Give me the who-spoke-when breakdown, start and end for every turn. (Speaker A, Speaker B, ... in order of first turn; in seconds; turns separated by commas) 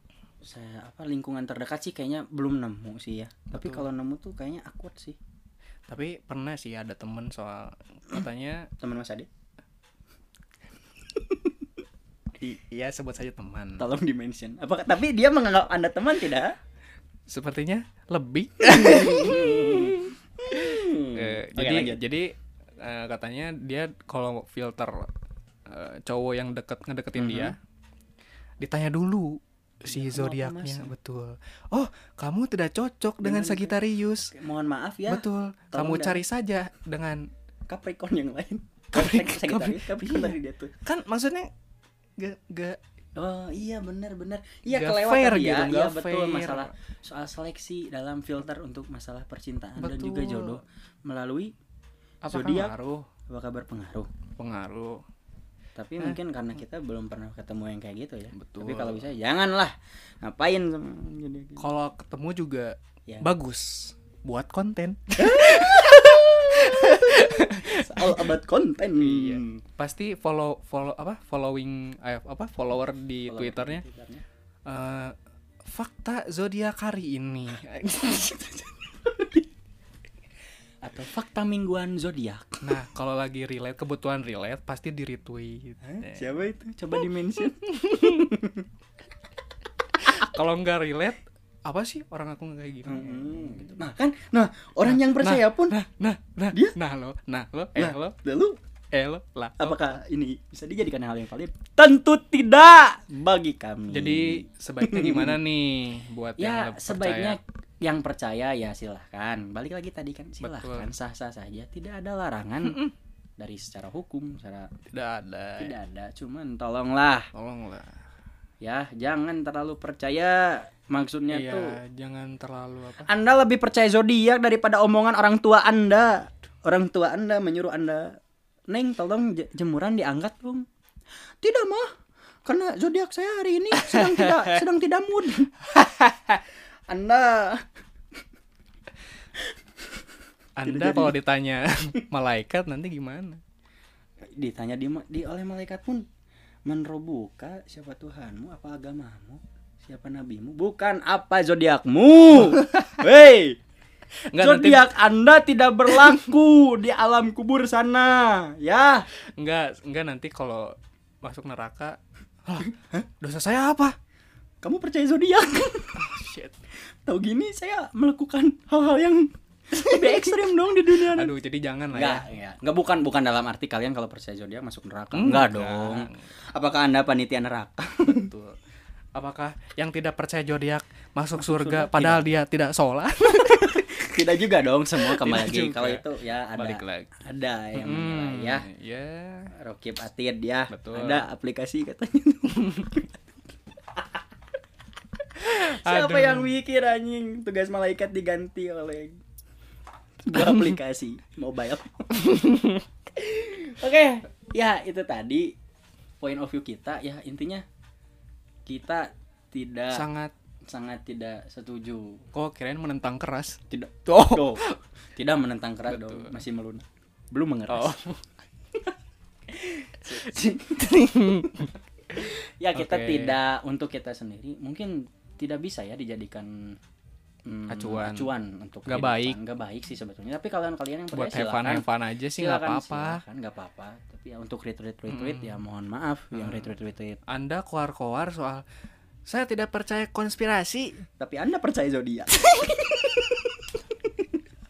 Speaker A: 0.4-5.2, Speaker B: 3.5-3.8, Speaker B: 5.9-8.7, Speaker A: 8.8-9.3, Speaker A: 11.2-11.5, Speaker B: 12.4-13.9, Speaker A: 13.8-16.6, Speaker B: 17.3-25.1, Speaker A: 18.6-22.0, Speaker B: 25.7-27.6, Speaker A: 27.2-27.6, Speaker B: 28.6-34.3, Speaker A: 29.9-30.9, Speaker A: 33.2-36.2, Speaker B: 35.1-37.3, Speaker A: 37.7-40.7, Speaker B: 38.9-41.5, Speaker B: 42.2-42.8, Speaker A: 43.2-51.5, Speaker B: 44.7-46.7, Speaker B: 49.8-50.6, Speaker B: 52.2-53.1, Speaker A: 52.3-52.7, Speaker A: 53.3-54.1, Speaker B: 54.4-55.0, Speaker A: 55.8-61.7, Speaker B: 58.4-59.1, Speaker B: 61.6-68.3, Speaker A: 63.1-63.3, Speaker A: 65.2-69.6, Speaker B: 69.0-73.8, Speaker A: 73.3-74.2, Speaker B: 74.7-79.0, Speaker A: 79.2-79.4, Speaker A: 80.8-82.7, Speaker B: 82.6-86.3, Speaker A: 85.8-88.7, Speaker B: 87.5-88.3, Speaker B: 90.0-93.7, Speaker A: 92.9-95.8, Speaker B: 94.9-98.2, Speaker A: 97.8-98.6, Speaker B: 98.9-99.9, Speaker A: 99.6-105.4, Speaker B: 103.9-107.4, Speaker A: 106.4-112.8, Speaker B: 110.4-110.9, Speaker B: 112.6-112.9, Speaker A: 113.4-114.7, Speaker B: 114.9-115.8, Speaker A: 115.6-117.3, Speaker B: 117.3-118.0, Speaker A: 118.6-121.8, Speaker B: 121.3-123.1, Speaker A: 123.0-128.2, Speaker A: 128.7-130.7, Speaker A: 131.4-131.9, Speaker A: 132.5-135.7, Speaker B: 133.8-134.6, Speaker B: 135.7-136.4, Speaker A: 136.9-137.7, Speaker B: 140.6-143.4, Speaker A: 140.6-141.2, Speaker A: 144.3-146.1, Speaker A: 146.7-153.6, Speaker B: 152.3-153.0, Speaker B: 154.3-154.9, Speaker A: 154.4-159.1, Speaker B: 155.9-156.2, Speaker B: 159.4-164.0, Speaker A: 164.6-166.1, Speaker B: 166.0-166.6, Speaker A: 167.1-171.3, Speaker B: 169.7-172.3, Speaker A: 171.9-178.3, Speaker B: 175.1-176.3, Speaker B: 178.0-178.6, Speaker B: 179.2-184.2, Speaker A: 181.4-182.3, Speaker A: 183.6-188.7, Speaker B: 185.0-187.1, Speaker B: 187.7-189.5, Speaker A: 189.5-193.1, Speaker B: 190.7-191.2, Speaker A: 195.3-199.2, Speaker B: 195.4-196.6, Speaker A: 200.2-202.2, Speaker B: 200.3-200.7, Speaker B: 202.1-202.9, Speaker A: 203.1-205.5, Speaker A: 206.2-207.7, Speaker A: 208.7-210.1, Speaker B: 209.9-210.3, Speaker A: 210.7-212.3, Speaker B: 212.3-214.8, Speaker A: 213.7-214.6, Speaker A: 215.2-218.0, Speaker B: 215.9-216.4, Speaker B: 217.7-218.2, Speaker A: 219.5-226.8, Speaker B: 220.1-223.4, Speaker A: 227.5-237.2, Speaker B: 227.7-228.3, Speaker B: 228.9-229.4, Speaker B: 231.1-233.2, Speaker B: 235.1-235.6, Speaker B: 236.3-236.7, Speaker B: 237.3-238.6, Speaker B: 239.3-241.0, Speaker A: 241.2-243.4, Speaker B: 242.4-243.2, Speaker A: 244.1-244.3